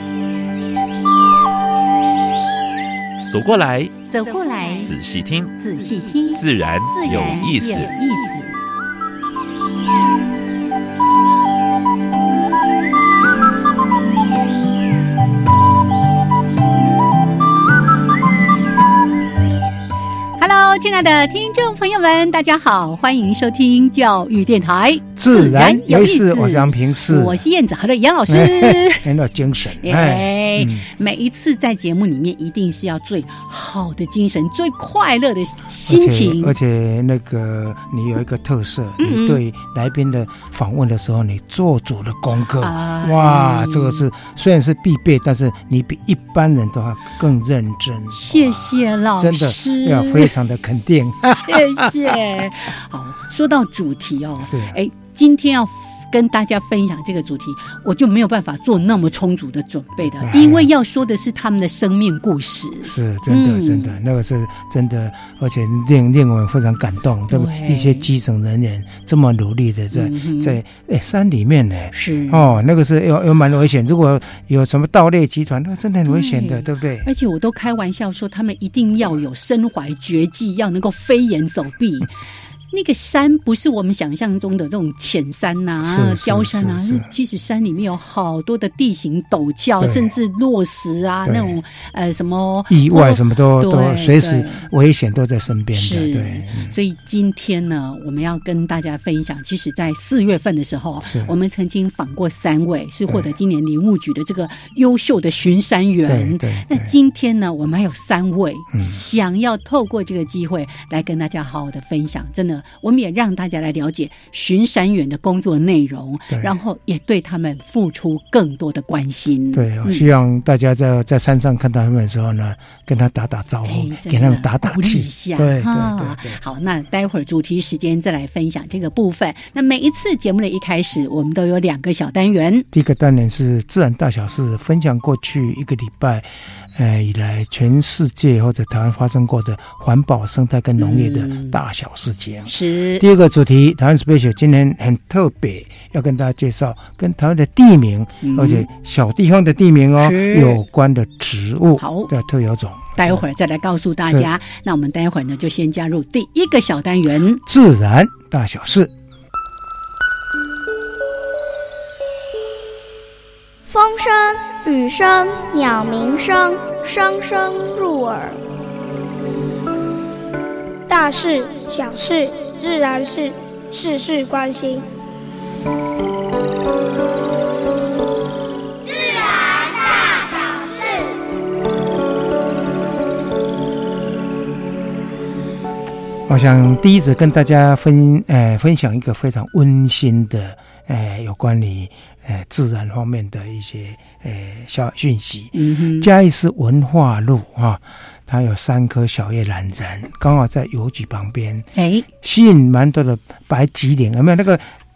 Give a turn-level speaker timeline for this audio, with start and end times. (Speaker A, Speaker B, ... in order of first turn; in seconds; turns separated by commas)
Speaker A: 3.3-4.0, Speaker B: 4.1-4.9, Speaker A: 4.8-5.5, Speaker B: 5.6-8.5, Speaker A: 6.3-7.9, Speaker B: 20.4-29.1, Speaker C: 25.1-27.4, Speaker C: 28.3-30.9, Speaker B: 29.8-36.5, Speaker C: 35.9-52.1, Speaker B: 39.0-39.4, Speaker B: 42.6-44.1, Speaker B: 48.1-50.3, Speaker B: 51.3-64.0, Speaker C: 54.4-54.8, Speaker C: 60.2-60.7, Speaker C: 62.8-77.1, Speaker B: 67.3-68.1, Speaker B: 69.9-70.6, Speaker B: 71.9-72.5, Speaker B: 76.1-82.1, Speaker B: 82.7-94.7, Speaker C: 85.8-87.1, Speaker C: 89.8-90.1, Speaker C: 91.2-91.5, Speaker C: 92.7-96.7, Speaker B: 95.7-120.0, Speaker C: 101.0-101.3, Speaker C: 106.1-106.9, Speaker C: 116.3-116.6, Speaker C: 119.5-126.4, Speaker B: 123.6-132.7, Speaker C: 132.7-153.2, Speaker B: 140.8-141.6, Speaker B: 142.4-143.0, Speaker B: 148.2-148.7, Speaker B: 150.0-150.6, Speaker B: 151.8-152.1, Speaker B: 152.9-157.4, Speaker C: 154.0-154.3, Speaker C: 157.4-158.9, Speaker D: 163.7-168.4, Speaker D: 170.9-174.9, Speaker C: 186.3-201.7, Speaker B: 195.5-196.1, Speaker B: 201.7-202.1, Speaker C: 202.2-204.7